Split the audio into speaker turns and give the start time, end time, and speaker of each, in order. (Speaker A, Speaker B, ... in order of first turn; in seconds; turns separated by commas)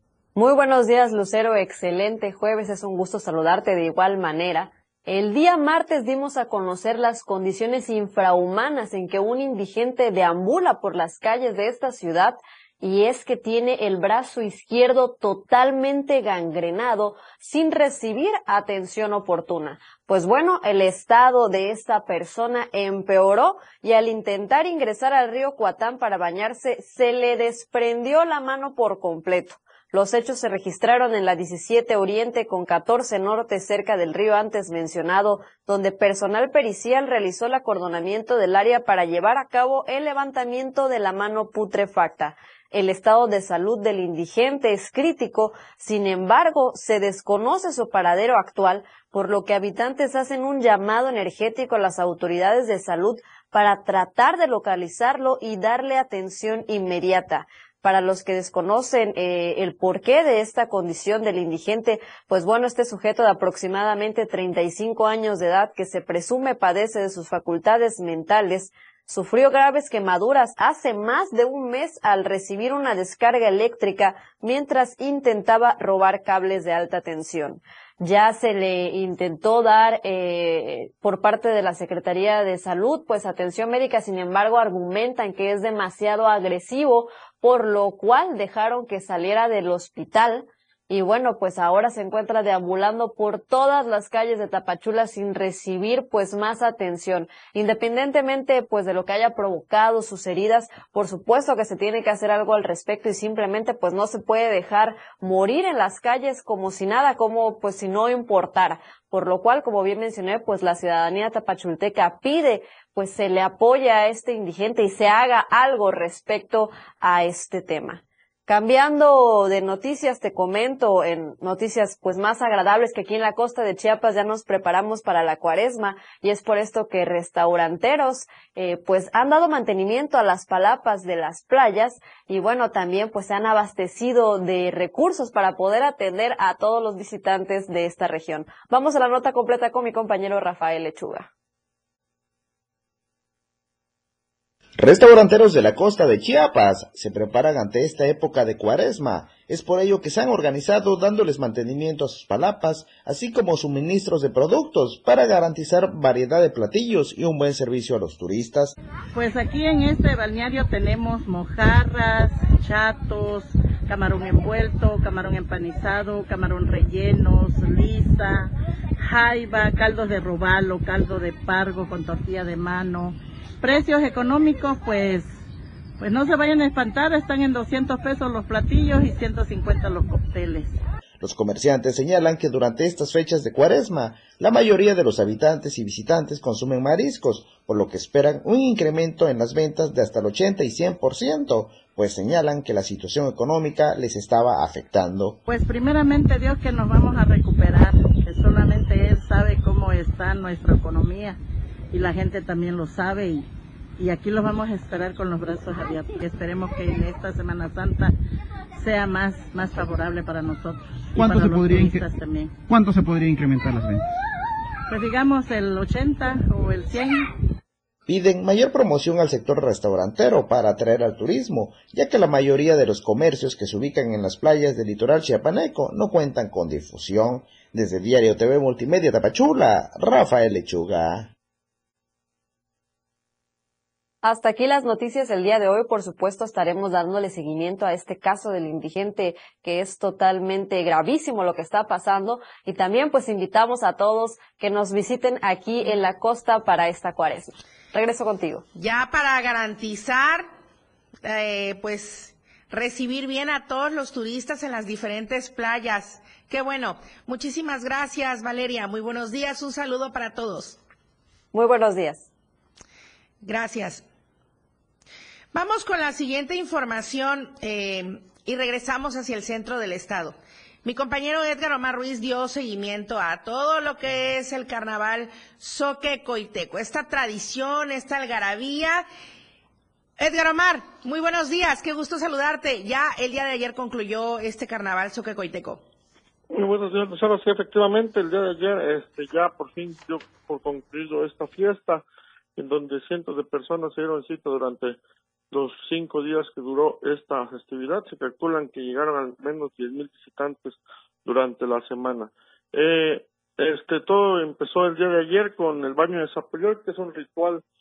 Speaker A: 0.3-141.3, Speaker B: 144.8-158.8, Speaker C: 159.1-175.4, Speaker C: 176.0-180.8, Speaker B: 181.2-195.4, Speaker C: 195.5-201.4, Speaker C: 201.9-203.5, Speaker C: 204.0-208.1, Speaker C: 208.8-212.6, Speaker D: 211.2-212.1, Speaker D: 212.7-214.0, Speaker C: 214.9-217.3, Speaker B: 218.1-231.3, Speaker A: 234.2-248.6, Speaker E: 248.8-250.5, Speaker E: 251.2-260.8, Speaker A: 261.5-262.3, Speaker E: 263.4-264.0, Speaker E: 265.5-279.1, Speaker E: 280.2-285.8, Speaker F: 286.5-292.0, Speaker F: 292.6-295.0, Speaker F: 295.5-307.6